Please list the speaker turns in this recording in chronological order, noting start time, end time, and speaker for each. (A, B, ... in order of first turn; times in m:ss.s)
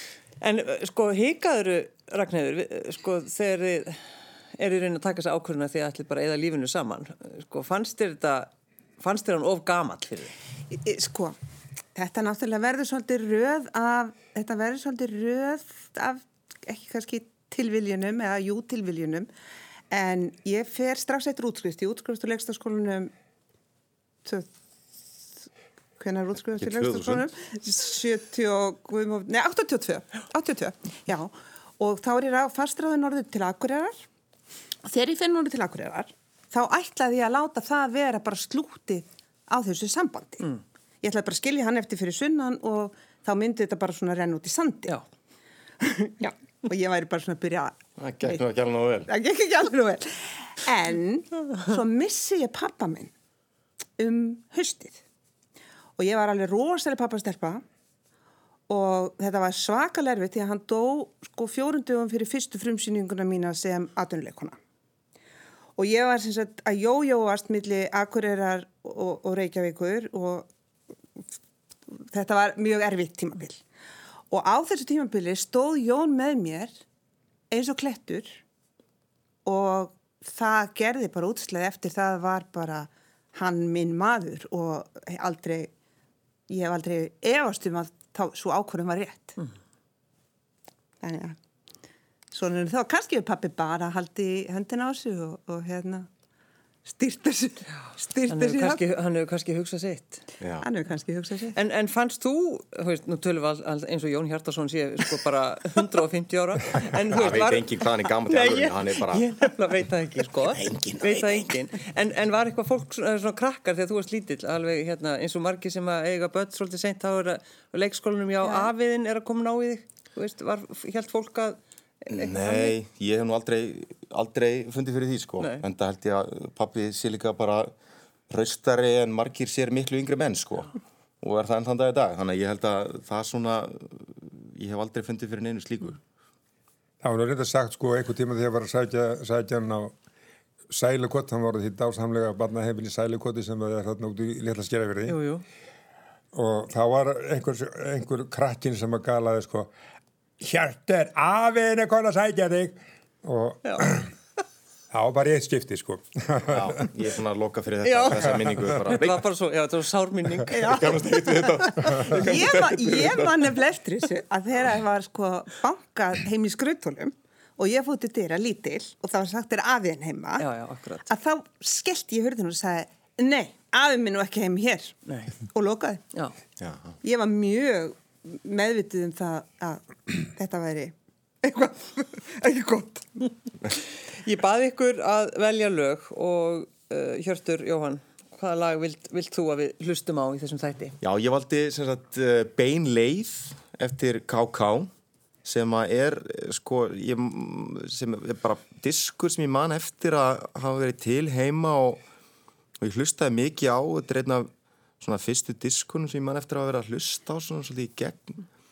0:00.4-0:04.0 A
0:04.6-0:10.4 A
0:10.7-0:11.4 B
0:12.0-0:19.3 B
0:19.9-0:23.1 B
0:26.0-0:34.0 B
0:26.6-0:27.3 C
0:34.8-0:40.5 B
0:41.0-0:45.0 B
0:45.8-0:48.4 B
0:48.0-0:49.1 C
0:49.1-0:53.1 B
0:54.0-0:55.0 B
0:56.0-0:57.6 B
0:58.7-1:04.6 B
1:05.8-1:10.5 B
1:11.9-1:13.6 B
1:14.3-1:16.8 B
1:17.5-1:18.4 B
1:19.5-1:25.7 B
1:26.5-1:29.4 B
1:31.0-1:31.4 B
1:32.3-1:36.1 B
1:36.9-1:38.8 B
1:38.3-1:40.3 A
1:40.4-1:40.7 C
1:40.6-1:41.6 B
1:41.6-2:02.8 A
1:47.1-1:49.2 C
1:50.4-1:51.6 C
1:58.4-1:58.7 B
2:02.1-2:07.7 C
2:08.3-2:16.0 C
2:17.0-2:20.0 D
2:20.7-2:25.2 D
2:25.1-2:25.4 A
2:26.3-2:29.7 D
2:30.4-2:34.1 D
2:34.9-2:36.8 D
2:36.5-2:39.2 C
2:37.8-2:41.0 A
2:40.5-2:50.5 B
2:40.5-2:43.3 C
2:50.4-2:51.1 A
2:51.1-2:56.0 B
2:55.1-2:55.3 A
2:56.6-2:57.0 C
2:57.0-3:03.1 B
3:04.2-3:11.0 A
3:11.0-3:14.9 C
3:15.4-3:22.0 C
3:22.8-3:24.5 C
3:25.0-3:28.4 C